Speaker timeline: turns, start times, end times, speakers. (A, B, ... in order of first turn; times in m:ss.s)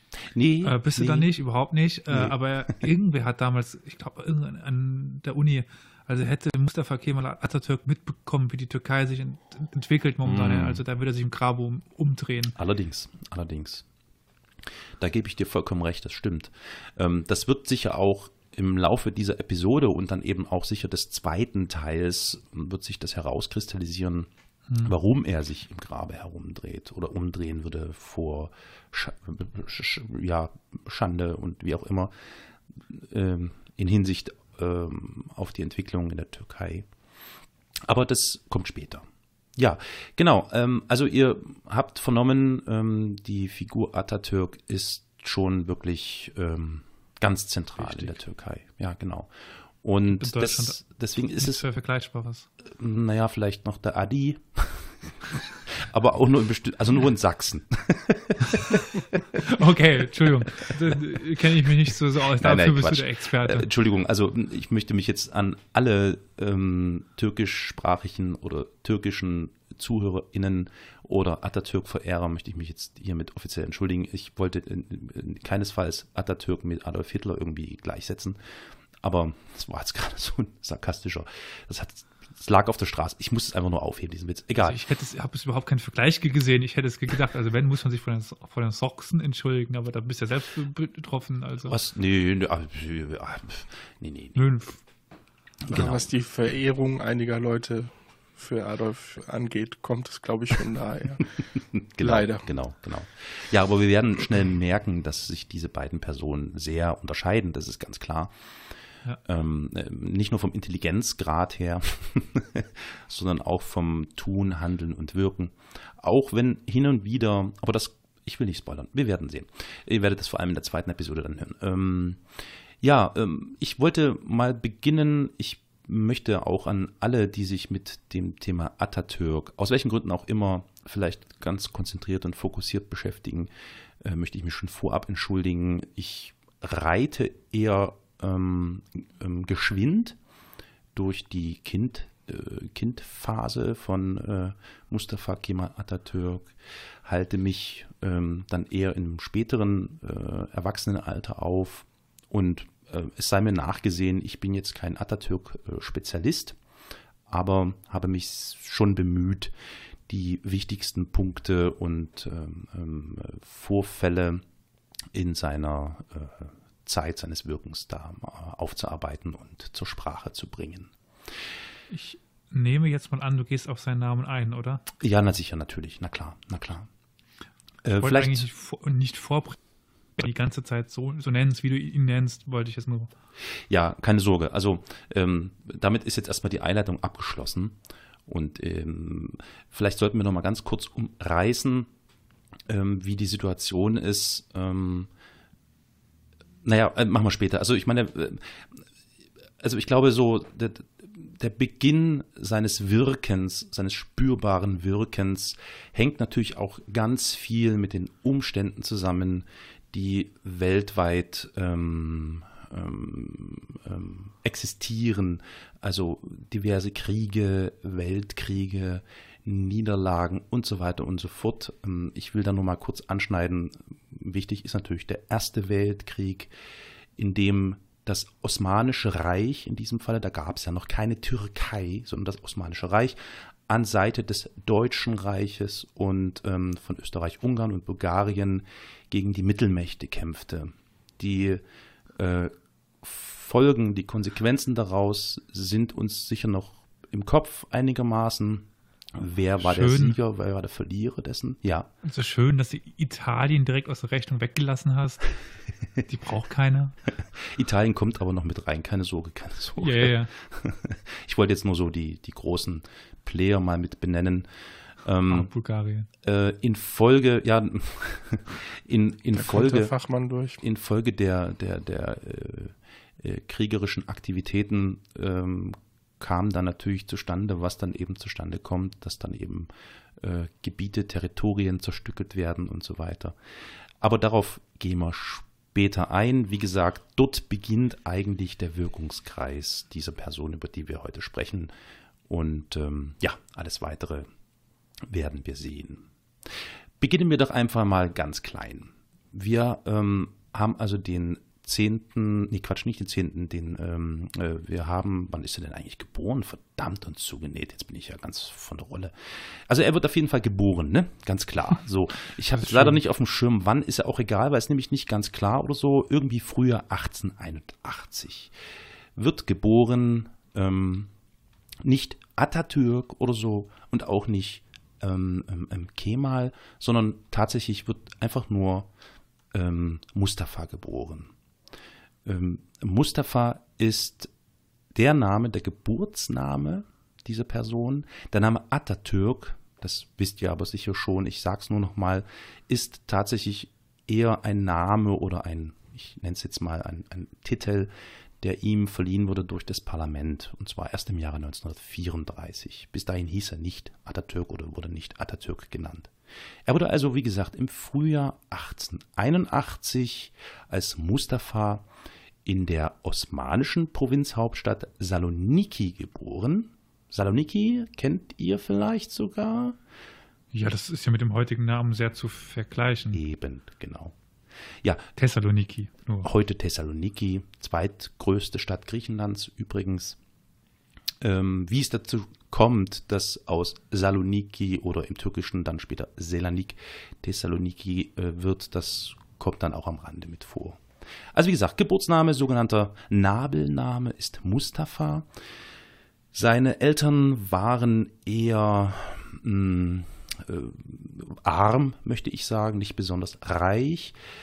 0:00.3-0:01.3 A
0:00.6-0:12.6 B
0:10.2-0:10.8 A
0:12.6-0:13.8 A
0:15.0-0:32.1 A
0:32.9-0:36.9 A
0:37.8-0:39.0 A
0:39.6-0:49.3 A
0:47.8-0:48.1 B
0:49.8-0:51.6 A
0:50.1-0:52.5 B
0:52.6-0:55.0 A
0:55.6-0:59.4 A
0:59.4-1:03.7 B
1:02.4-1:18.4 A
1:19.0-1:24.8 A
1:24.6-1:31.8 B
1:31.7-1:34.4 A
1:34.4-1:34.8 B
1:35.6-1:36.0 A
1:35.7-1:41.3 C
1:41.6-1:48.3 A
1:42.0-1:42.4 C
1:49.2-2:02.2 A
2:02.8-2:13.5 A
2:14.0-2:20.2 A
2:20.9-2:26.5 A
2:27.0-2:36.6 A
2:37.3-2:39.5 A
2:40.1-2:44.4 A
2:45.1-2:50.9 A
2:51.9-2:54.8 B
2:55.0-2:56.9 A
2:57.8-2:58.5 A
2:58.0-2:59.6 B
3:00.2-3:03.1 B
3:03.7-3:11.9 A
3:12.7-3:15.1 A
3:16.6-3:18.8 A
3:19.6-3:46.5 A
3:47.2-4:01.6 A
4:02.2-4:11.9 A
4:09.6-4:10.2 B
4:12.0-4:15.3 B
4:16.0-4:16.9 B
4:17.3-4:24.5 A
4:19.8-4:20.3 B
4:25.0-4:25.5 A
4:25.3-4:26.1 B
4:26.2-4:29.9 A
4:29.3-4:30.6 C
4:30.6-4:43.3 A
4:44.0-4:51.7 A
4:52.3-4:54.3 A
4:55.1-4:56.1 A
4:57.0-5:18.5 A
5:12.6-5:13.0 B
5:19.2-5:21.1 A
5:21.8-5:28.9 A
5:29.5-5:31.3 A
5:32.2-5:34.3 A
5:34.9-5:56.1 A
5:56.6-6:01.8 A
6:02.4-6:09.8 A
6:10.5-6:13.2 B
6:13.1-6:14.1 A
6:15.2-6:16.3 B
6:16.2-6:20.2 A
6:21.2-6:30.8 A
6:31.3-6:35.2 A
6:36.3-6:44.2 A